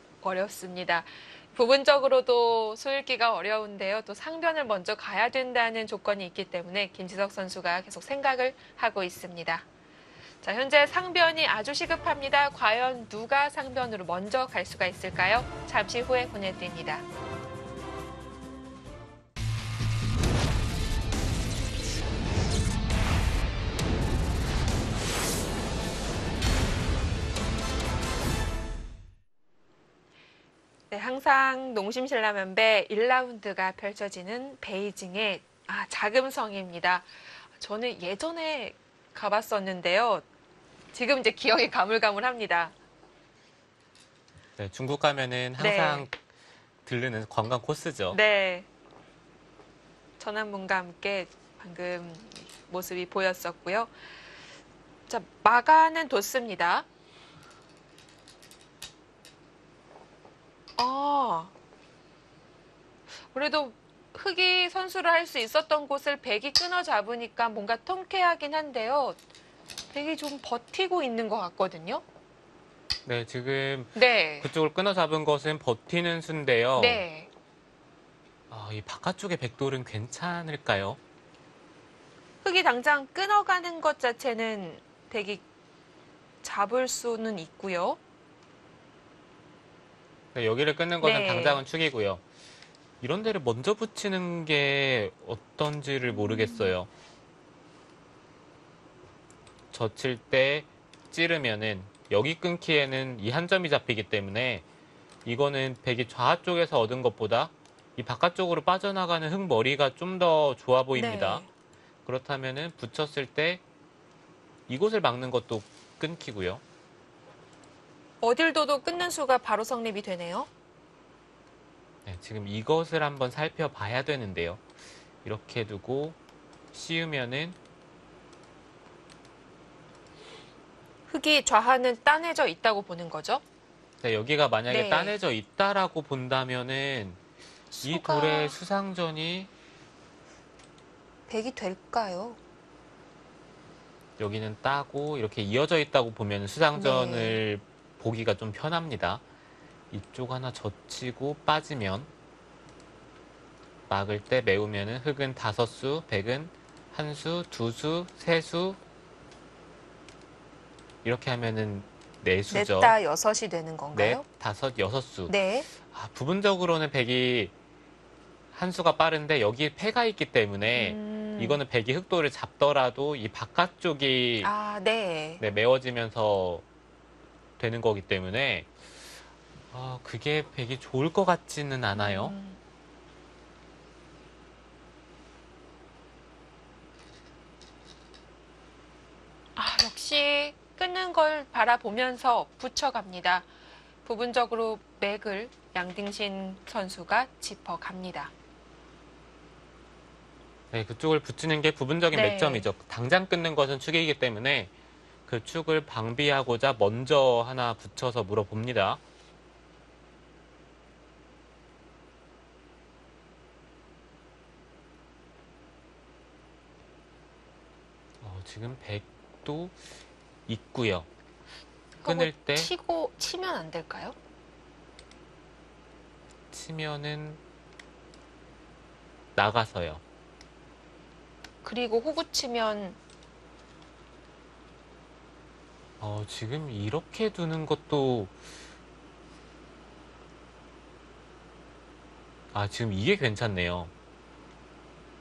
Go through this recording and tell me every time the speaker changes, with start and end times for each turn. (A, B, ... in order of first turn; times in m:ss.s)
0:00.2-0:09.6 A
0:10.4-0:17.0 A
0:30.9-0:40.2 A
0:40.9-0:42.7 A
0:44.6-0:46.1 B
0:45.6-0:46.0 A
0:46.8-0:48.2 B
0:48.1-0:48.7 A
0:50.2-0:53.9 A
0:55.1-0:56.8 A
1:00.8-1:01.5 A
1:03.2-1:09.2 A
1:09.9-1:12.0 A
1:13.0-1:17.0 B
1:13.9-1:14.5 A
1:16.8-1:17.3 A
1:18.5-1:21.0 B
1:22.4-1:25.4 A
1:26.4-1:28.0 A
1:30.3-1:32.2 B
1:31.0-1:31.6 A
1:33.0-1:36.9 B
1:36.1-1:36.7 A
1:39.7-1:44.6 B
1:45.2-1:51.4 B
1:50.9-1:51.5 A
1:52.0-1:53.6 B
1:54.7-1:56.6 B
1:58.2-2:00.5 A
2:02.0-2:04.6 B
2:05.2-2:06.2 B
2:06.7-2:07.6 B
2:11.1-2:13.4 A
2:14.0-2:17.2 B
2:14.7-2:15.2 A
2:17.7-2:18.6 A
2:17.8-2:19.5 B
2:21.3-2:22.4 A
2:24.2-2:29.2 B
2:26.7-2:27.4 A
2:29.9-2:32.1 B
2:33.9-2:38.8 B
2:41.0-2:42.9 B
2:42.5-2:44.2 A
2:43.9-2:47.5 B
2:45.3-2:45.7 A
2:48.5-2:54.5 B
2:50.7-2:51.6 A
2:54.4-2:55.4 A
2:55.4-2:56.6 B
2:57.6-2:58.7 B
2:59.7-3:02.3 B
3:01.9-3:02.6 A
3:09.6-3:13.5 A
3:14.0-3:18.3 A
3:20.7-3:24.7 B
3:22.1-3:22.6 A
3:25.3-3:29.0 B
3:38.2-3:39.7 B
3:40.5-3:41.1 B
3:42.0-3:44.2 A
3:42.0-3:42.7 B
3:46.5-3:47.4 B
3:49.4-3:50.0 B
3:51.6-3:53.0 A
3:56.0-3:58.3 B
4:02.5-4:03.9 B